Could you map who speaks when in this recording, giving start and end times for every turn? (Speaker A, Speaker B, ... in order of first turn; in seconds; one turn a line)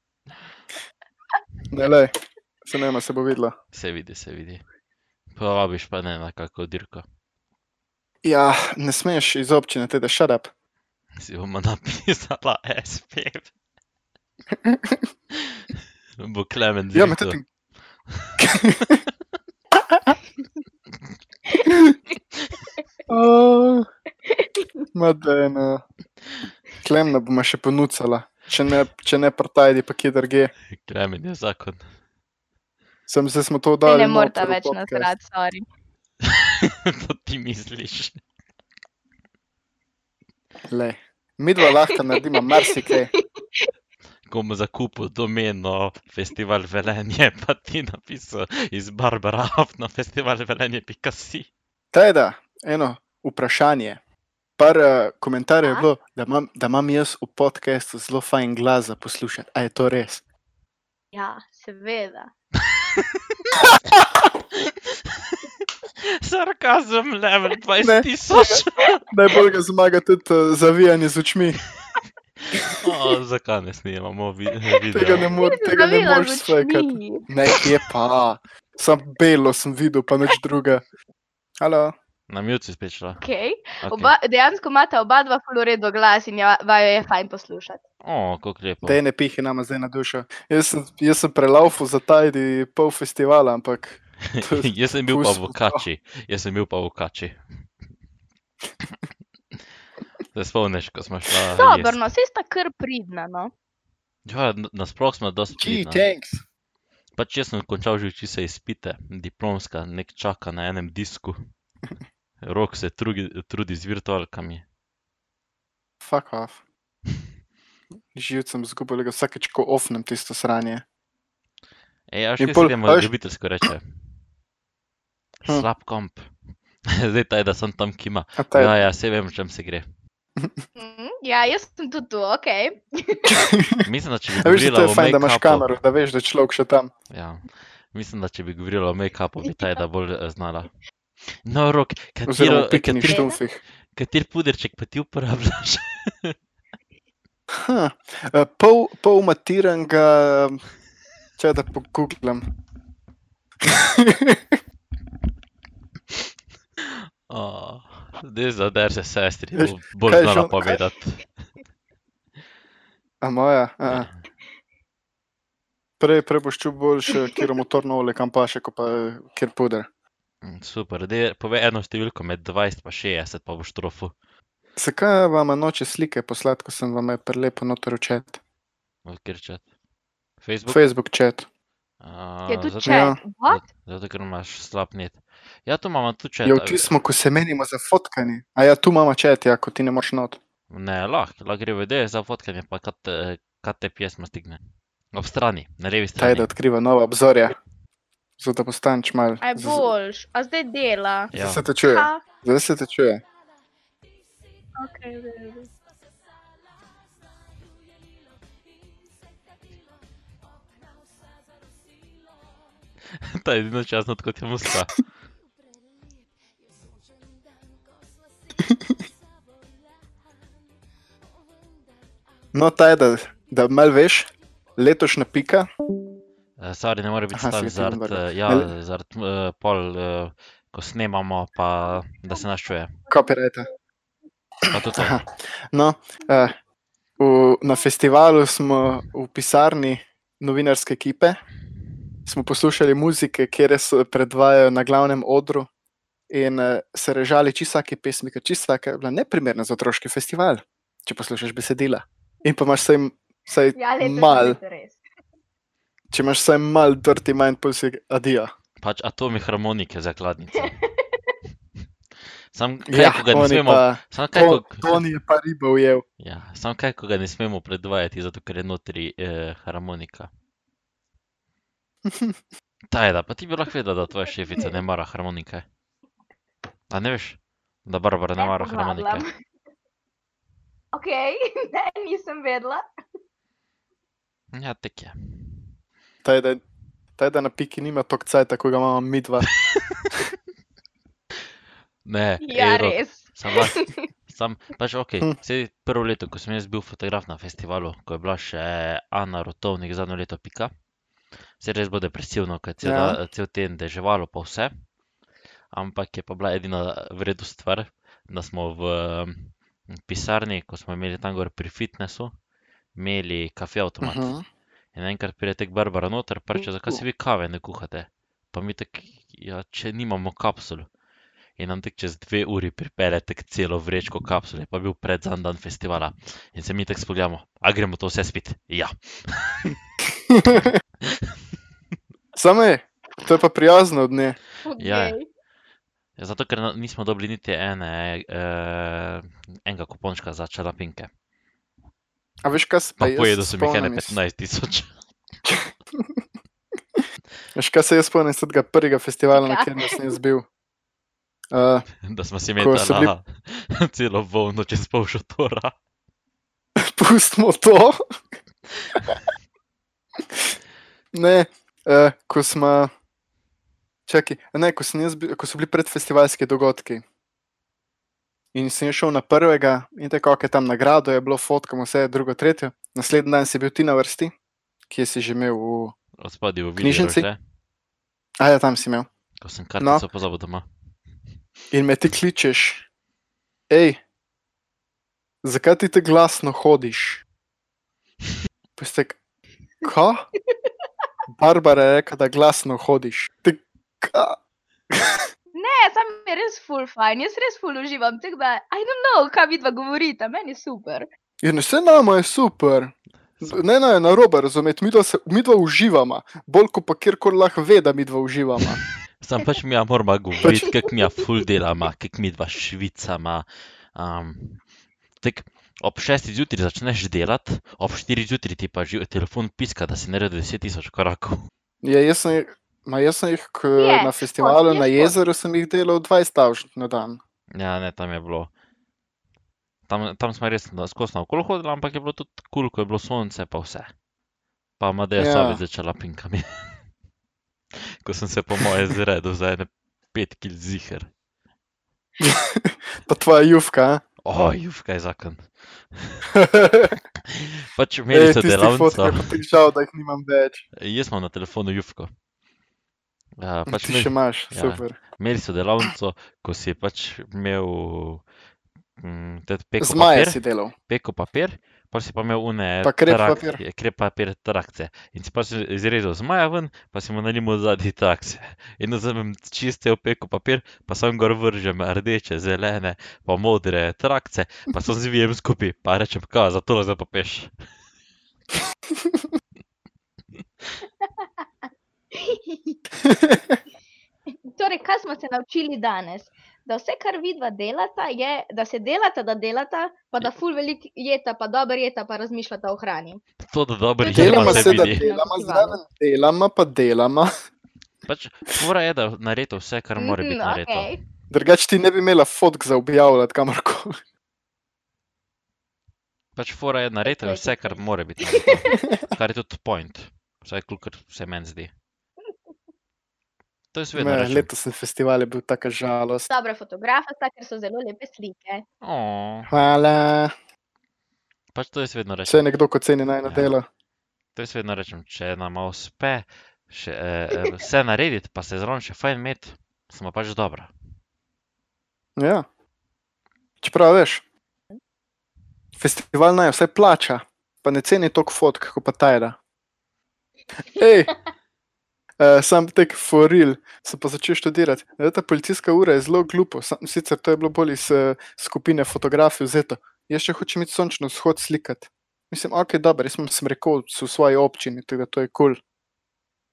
Speaker A: 1.7-2.1
Speaker A: 2.6-3.5
Speaker B: 3.7-4.6
Speaker B: 5.3-7.0
Speaker A: 8.2-10.5
Speaker B: 11.2-13.5
Speaker A: 14.7-15.0
Speaker B: 15.3-17.4
Speaker A: 16.9-17.4
Speaker B: 18.1-18.4
Speaker A: 18.4-19.1
Speaker A: 19.9-20.2
Speaker A: 21.6-22.0
Speaker A: 23.1-23.9
Speaker A: 24.9-25.8
Speaker A: 26.8-30.5
Speaker B: 30.7-31.8
Speaker A: 33.1-35.1
Speaker C: 33.9-35.6
Speaker B: 36.2-38.2
Speaker A: 40.7-43.1
Speaker C: 42.9-43.7
Speaker B: 44.3-51.5
Speaker A: 51.9-54.0
Speaker A: 54.6-60.2
Speaker C: 61.1-62.3
Speaker B: 62.6-63.5
Speaker B: 64.5-69.0
Speaker A: 67.8-71.6
Speaker B: 72.8-75.3
Speaker A: 74.9-80.8
Speaker C: 75.2-77.7
Speaker A: 81.6-81.9
Speaker B: 82.3-83.2
Speaker C: 83.2-87.8
Speaker B: 83.8-84.1
Speaker B: 88.0-89.0
Speaker A: 88.8-95.8
Speaker B: 94.3-97.4
Speaker B: 100.3-102.0
Speaker C: 101.6-103.5
Speaker B: 104.3-106.0
Speaker A: 105.6-106.4
Speaker B: 107.2-111.4
Speaker B: 112.4-114.7
Speaker A: 116.0-116.6
Speaker A: 118.1-120.8
Speaker B: 122.1-123.8
Speaker A: 122.4-123.1
Speaker B: 125.5-126.3
Speaker B: 126.9-129.9
Speaker A: 128.4-128.8
Speaker C: 130.8-133.4
Speaker A: 133.3-133.8
Speaker B: 133.9-135.8
Speaker A: 134.4-136.9
Speaker B: 137.1-140.7
Speaker B: 141.4-143.3
Speaker A: 142.3-143.6
Speaker C: 143.1-143.4
Speaker B: 143.9-146.3
Speaker A: 147.6-150.6
Speaker A: 151.4-152.4
Speaker A: 153.6-154.6
Speaker B: 156.8-161.2
Speaker A: 159.6-160.8
Speaker A: 163.2-164.1
Speaker B: 163.9-164.2
Speaker A: 166.0-169.9
Speaker B: 170.4-174.1
Speaker A: 174.8-178.4
Speaker B: 179.1-179.6
Speaker B: 180.4-180.8
Speaker A: 180.7-181.5
Speaker B: 182.0-186.9
Speaker C: 182.5-183.7
Speaker A: 182.8-183.2
Speaker A: 186.4-190.4
Speaker B: 190.7-194.6
Speaker B: 195.1-196.5
Speaker A: 196.2-197.6
Speaker A: 198.4-199.9
Speaker C: 199.4-201.3
Speaker B: 201.3-201.7
Speaker A: 201.3-203.2
Speaker C: 201.8-202.2
Speaker C: 204.8-205.7
Speaker B: 213.1-214.9
Speaker A: 222.5-225.7
Speaker B: 226.6-233.0
Speaker A: 227.3-228.7
Speaker A: 233.1-233.7
Speaker B: 234.7-235.2
Speaker A: 234.9-236.5
Speaker A: 237.2-241.4
Speaker A: 242.3-245.7
Speaker A: 246.3-254.6
Speaker C: 253.8-255.0
Speaker A: 256.1-258.5
Speaker B: 258.8-260.7
Speaker C: 260.6-261.3
Speaker B: 262.5-265.0
Speaker A: 262.9-266.0
Speaker B: 266.2-270.3
Speaker A: 272.1-272.4
Speaker B: 272.9-275.6
Speaker B: 276.9-279.2
Speaker C: 278.4-279.3
Speaker C: 280.9-282.9
Speaker B: 284.5-285.7
Speaker A: 286.2-286.6
Speaker A: 287.2-289.5
Speaker B: 292.1-300.7
Speaker C: 292.4-294.1
Speaker B: 301.6-304.7
Speaker A: 302.8-303.2
Speaker B: 305.7-312.3
Speaker B: 312.9-314.3
Speaker A: 314.0-314.4
Speaker B: 314.9-320.9
Speaker B: 321.6-329.8
Speaker A: 330.3-330.8
Speaker B: 331.0-331.4
Speaker A: 332.4-334.4
Speaker C: 334.7-335.3
Speaker B: 334.8-335.2
Speaker B: 336.2-341.1
Speaker A: 342.4-344.2
Speaker B: 343.0-344.9
Speaker A: 345.5-346.1
Speaker A: 347.6-350.4
Speaker C: 349.4-350.0
Speaker A: 351.5-351.9
Speaker B: 352.0-355.7
Speaker A: 352.6-353.1
Speaker A: 356.8-358.0
Speaker A: 361.1-362.9
Speaker A: 364.1-367.0
Speaker A: 368.5-374.3
Speaker A: 374.9-375.9
Speaker B: 376.2-377.4
Speaker A: 376.8-377.3
Speaker A: 378.4-379.1
Speaker B: 379.4-380.7
Speaker A: 381.7-382.9
Speaker A: 383.7-384.0
Speaker A: 385.4-387.2
Speaker A: 388.8-389.2
Speaker A: 389.8-390.3
Speaker A: 391.3-394.4
Speaker A: 394.9-395.2
Speaker C: 395.6-401.1
Speaker A: 401.4-408.8
Speaker B: 409.2-414.6
Speaker A: 410.4-410.8
Speaker B: 415.2-421.5
Speaker A: 421.8-427.2
Speaker C: 423.8-425.2
Speaker B: 427.6-428.5
Speaker B: 429.9-433.9
Speaker B: 434.8-436.8
Speaker A: 435.2-435.6
Speaker B: 437.7-441.1
Speaker A: 442.2-444.0
Speaker B: 444.2-446.2
Speaker A: 446.3-447.0
Speaker B: 447.3-449.4
Speaker A: 448.1-450.6
Speaker B: 450.7-452.1
Speaker B: 453.4-458.2
Speaker A: 453.7-455.0
Speaker B: 459.0-477.5
Speaker A: 459.8-460.7
Speaker A: 462.8-463.6
Speaker C: 481.0-481.3
Speaker C: 482.1-482.8
Speaker A: 483.1-483.6
Speaker C: 484.5-493.2
Speaker B: 493.4-495.0
Speaker C: 494.0-495.8
Speaker A: 494.2-497.3
Speaker B: 498.1-501.0
Speaker C: 500.0-501.0
Speaker A: 501.3-504.0
Speaker B: 506.4-511.7
Speaker C: 507.1-508.8
Speaker B: 513.7-514.5
Speaker A: 514.0-516.3
Speaker C: 516.3-518.6
Speaker B: 518.8-519.5
Speaker A: 519.5-520.3
Speaker B: 521.5-522.5
Speaker A: 522.3-523.7
Speaker B: 523.2-523.5
Speaker B: 524.4-530.7
Speaker A: 532.2-532.5
Speaker A: 533.6-534.2
Speaker A: 535.8-539.4
Speaker A: 540.6-541.1
Speaker A: 542.2-555.6